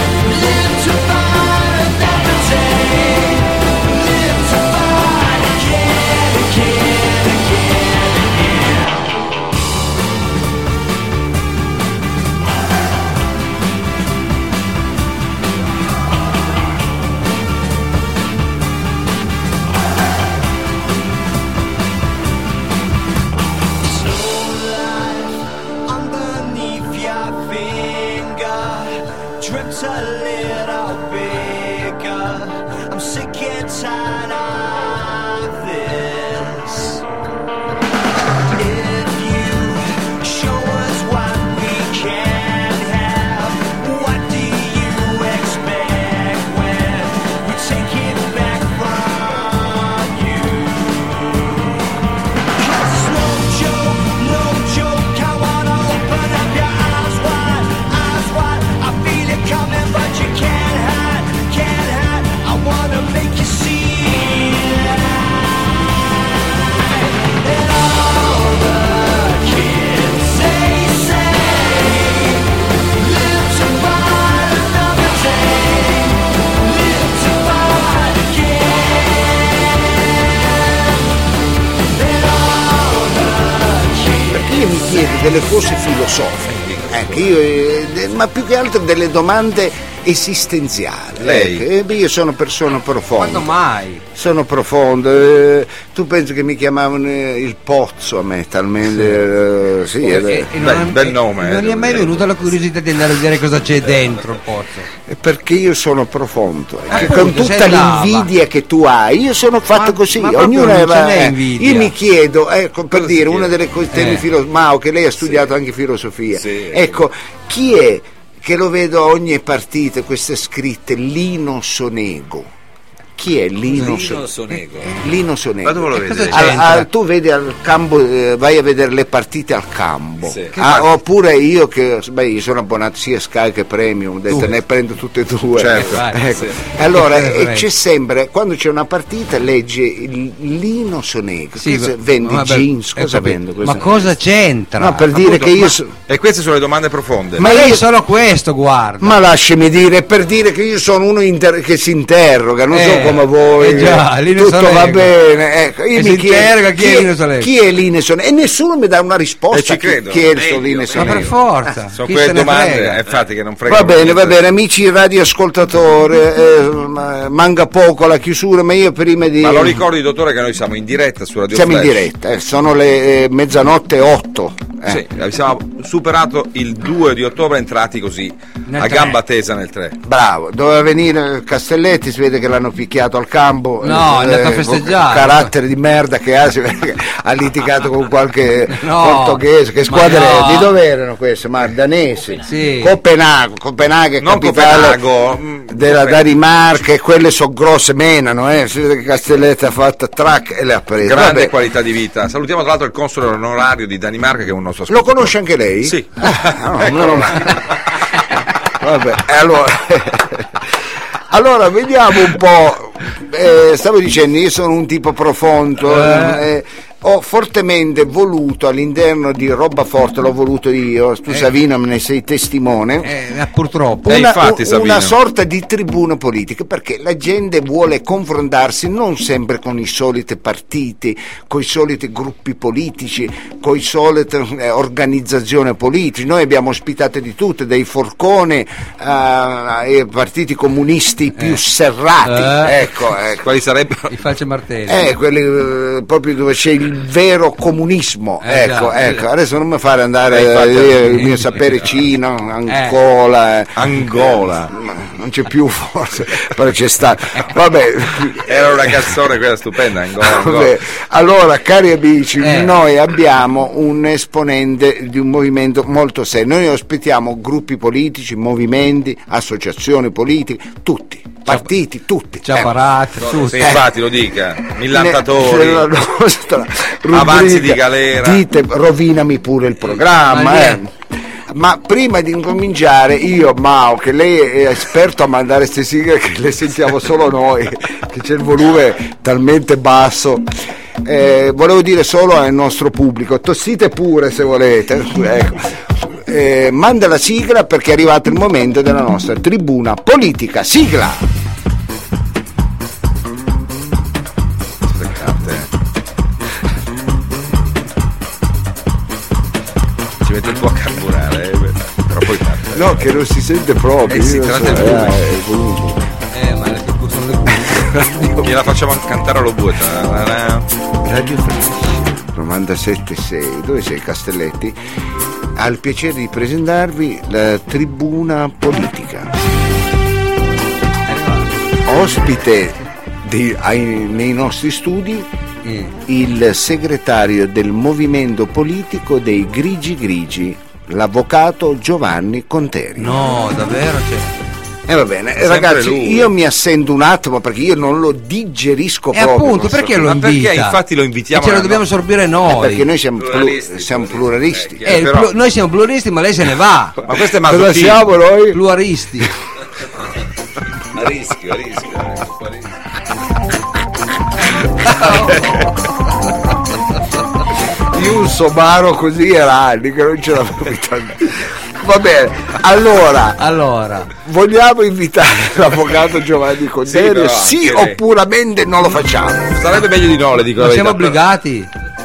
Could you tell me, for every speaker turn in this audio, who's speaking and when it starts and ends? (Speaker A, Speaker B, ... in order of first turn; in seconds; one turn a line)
Speaker A: 0.2-9.1
Speaker A: 23.8-37.0
Speaker A: 38.5-51.8
Speaker A: 52.6-65.8
Speaker A: 66.7-80.8
Speaker A: 81.9-84.5
Speaker B: 84.3-93.5
Speaker C: 86.5-87.2
Speaker C: 91.2-91.6
Speaker D: 93.2-94.0
Speaker B: 94.2-100.5
Speaker D: 100.0-104.9
Speaker C: 100.6-102.3
Speaker B: 105.1-122.5
Speaker D: 106.9-108.3
Speaker D: 109.7-111.9
Speaker C: 113.1-113.5
Speaker D: 113.9-114.2
Speaker E: 116.4-116.9
Speaker B: 123.2-124.3
Speaker E: 123.8-125.0
Speaker B: 125.0-144.1
Speaker C: 125.7-126.5
Speaker D: 125.9-126.9
Speaker C: 130.5-130.8
Speaker C: 135.6-136.0
Speaker D: 135.8-136.3
Speaker D: 136.9-137.7
Speaker D: 141.6-145.1
Speaker B: 144.8-145.9
Speaker C: 145.2-147.4
Speaker B: 147.4-147.9
Speaker D: 147.4-149.2
Speaker B: 149.0-161.3
Speaker D: 152.7-155.1
Speaker D: 155.9-157.5
Speaker C: 159.5-161.2
Speaker E: 160.3-161.3
Speaker D: 160.9-163.0
Speaker C: 161.9-164.4
Speaker B: 163.7-169.8
Speaker C: 169.4-172.1
Speaker B: 171.5-175.0
Speaker C: 174.9-180.0
Speaker D: 178.7-179.2
Speaker B: 180.0-195.0
Speaker D: 183.8-185.5
Speaker D: 188.7-190.7
Speaker D: 192.5-193.0
Speaker C: 194.2-196.2
Speaker B: 195.7-201.6
Speaker C: 201.0-207.7
Speaker B: 204.9-207.6
Speaker B: 208.7-210.7
Speaker B: 211.3-223.1
Speaker D: 215.9-216.4
Speaker D: 223.0-224.2
Speaker C: 224.1-225.1
Speaker B: 224.1-243.5
Speaker D: 242.2-242.8
Speaker C: 243.4-244.1
Speaker D: 244.1-245.1
Speaker B: 244.9-258.9
Speaker D: 248.4-249.2
Speaker C: 250.3-251.3
Speaker D: 251.1-251.4
Speaker D: 252.7-253.0
Speaker C: 253.8-254.7
Speaker C: 258.5-260.8
Speaker B: 260.2-272.8
Speaker D: 262.4-262.7
Speaker D: 272.4-273.8
Speaker C: 273.5-275.9
Speaker B: 274.9-280.9
Speaker C: 277.1-278.4
Speaker D: 280.3-280.8
Speaker B: 281.5-290.5
Speaker B: 291.0-301.2
Speaker C: 304.9-305.7
Speaker C: 310.2-313.1
Speaker B: 312.7-316.1
Speaker C: 314.1-315.2
Speaker D: 316.3-318.4
Speaker B: 317.8-318.5
Speaker C: 318.4-320.7
Speaker B: 321.0-324.8
Speaker B: 325.6-329.4
Speaker D: 331.1-331.5
Speaker B: 331.9-335.3
Speaker D: 335.6-335.9
Speaker B: 336.1-343.2
Speaker D: 343.0-344.4
Speaker B: 344.9-350.1
Speaker C: 345.4-346.3
Speaker D: 349.1-350.8
Speaker C: 350.0-351.8
Speaker D: 351.3-352.9
Speaker B: 352.5-354.8
Speaker E: 353.2-354.9
Speaker C: 354.9-355.3
Speaker D: 354.9-357.0
Speaker C: 357.1-358.0
Speaker B: 357.4-358.6
Speaker D: 358.5-359.3
Speaker E: 360.9-362.7
Speaker B: 367.9-373.4
Speaker D: 373.4-374.1
Speaker B: 374.1-379.6
Speaker C: 376.9-378.0
Speaker C: 379.5-381.2
Speaker D: 380.6-381.7